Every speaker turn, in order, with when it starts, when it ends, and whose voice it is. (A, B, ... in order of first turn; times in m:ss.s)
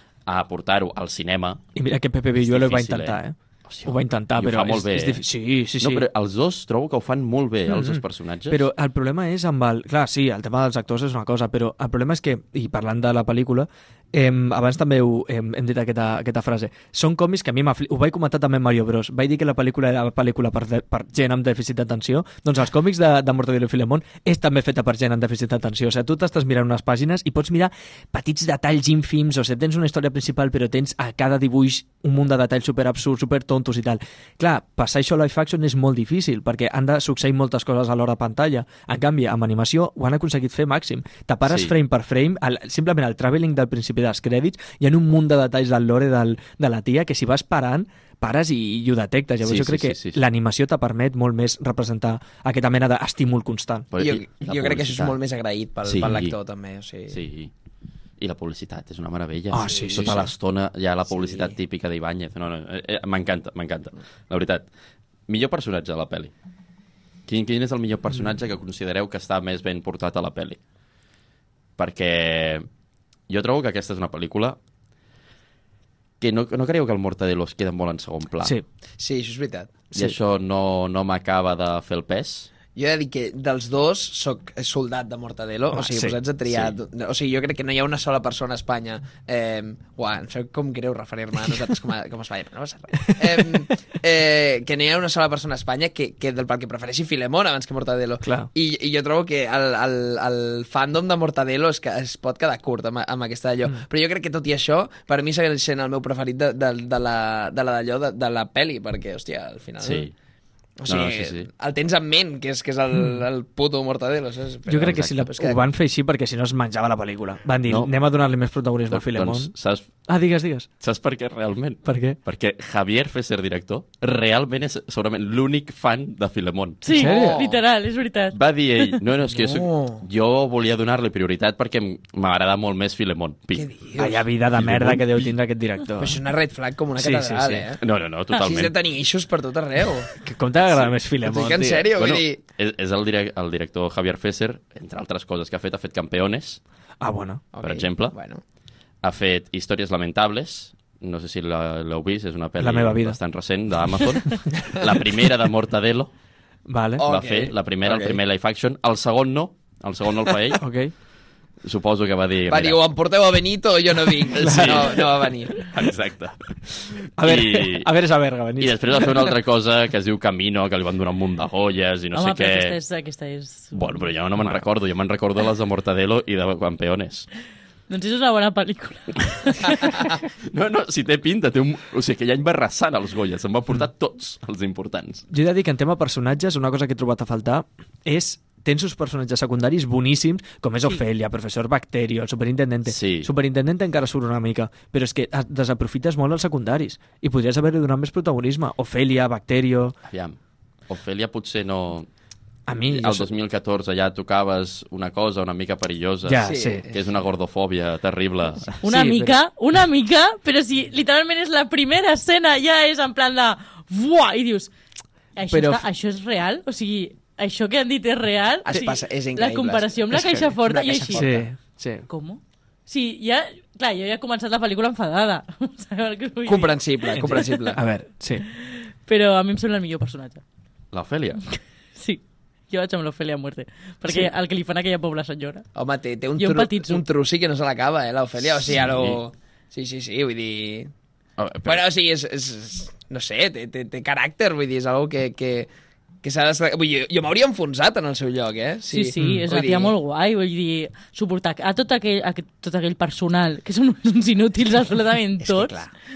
0:00.2-0:01.6 A
0:01.7-0:06.0 B
0:02.4-0:05.2 A
0:05.8-0:08.6 A
0:07.7-0:53.9 B
0:41.4-0:41.7 A
0:49.4-0:50.2 A
0:53.9-0:55.2 A
0:54.0-0:57.2 C
0:55.8-0:56.4 A
0:57.1-0:57.5 A
0:58.2-1:04.7 A
0:59.5-1:00.3 B
0:59.6-1:00.3 C
1:01.1-1:01.5 C
1:05.3-1:06.3 A
1:07.3-1:10.6 A
1:11.8-1:12.6 A
1:13.3-1:14.6 A
1:16.2-1:18.6 A
1:19.0-1:19.8 C
1:19.9-1:22.5 A
1:22.7-1:50.1 C
1:25.7-1:26.2 B
1:26.4-1:26.7 A
1:33.1-1:33.6 B
1:38.2-1:38.5 B
1:49.8-1:50.1 A
1:50.8-1:55.6 C
1:50.8-1:51.5 A
1:54.7-1:59.5 B
1:57.7-1:57.9 A
1:58.9-1:59.9 A
2:00.1-2:00.7 B
2:00.8-2:06.8 A
2:01.8-2:02.2 B
2:06.8-2:08.4 D
2:06.9-2:07.6 C
2:06.9-2:07.4 B
2:08.3-2:13.7 A
2:09.3-2:10.0 C
2:13.5-2:14.2 C
2:14.0-2:16.2 B
2:14.5-2:15.3 A
2:16.0-2:17.8 C
2:17.0-2:17.8 B
2:17.8-2:18.7 A
2:18.3-2:20.1 C
2:20.2-2:21.9 B
2:21.2-2:22.4 C
2:21.9-2:26.6 A
2:27.0-2:27.4 B
2:27.5-2:28.4 C
2:27.6-2:28.1 A
2:29.0-2:36.1 A
2:32.6-2:33.2 B
2:36.7-2:37.0 B
2:37.0-2:38.2 C
2:37.0-2:40.6 A
2:40.6-2:40.9 B
2:41.6-2:42.8 A
2:42.5-2:45.7 C
2:44.3-2:45.0 B
2:44.4-2:47.9 A
2:47.2-2:49.3 B
2:48.6-2:52.8 A
2:52.1-2:54.0 D
2:53.7-2:57.3 A
2:57.9-3:00.2 D
3:00.4-3:05.2 A
3:05.3-3:20.0 B
3:12.8-3:13.3 A
3:20.1-3:20.4 A
3:20.9-3:22.1 A
3:22.7-3:23.3 B
3:22.9-3:28.8 A
3:26.2-3:26.8 B
3:26.4-3:27.0 C
3:28.8-3:29.4 B
3:28.8-3:34.7 D
3:35.3-3:41.3 D
3:35.5-3:35.8 B
3:38.6-3:41.5 C
3:40.1-3:40.5 B
3:41.1-3:42.1 B
3:42.1-3:47.7 D
3:46.4-3:47.8 C
3:47.1-3:48.4 B
3:48.5-3:50.4 D
3:50.9-3:51.4 A
3:52.0-3:55.7 D
3:55.8-4:00.9 C
3:56.4-3:57.0 D
3:58.8-3:59.2 A
4:01.4-4:01.8 A
4:01.6-4:05.7 C
4:06.2-4:09.9 C
4:08.9-4:15.8 D
4:09.2-4:09.5 B
4:15.4-4:15.9 C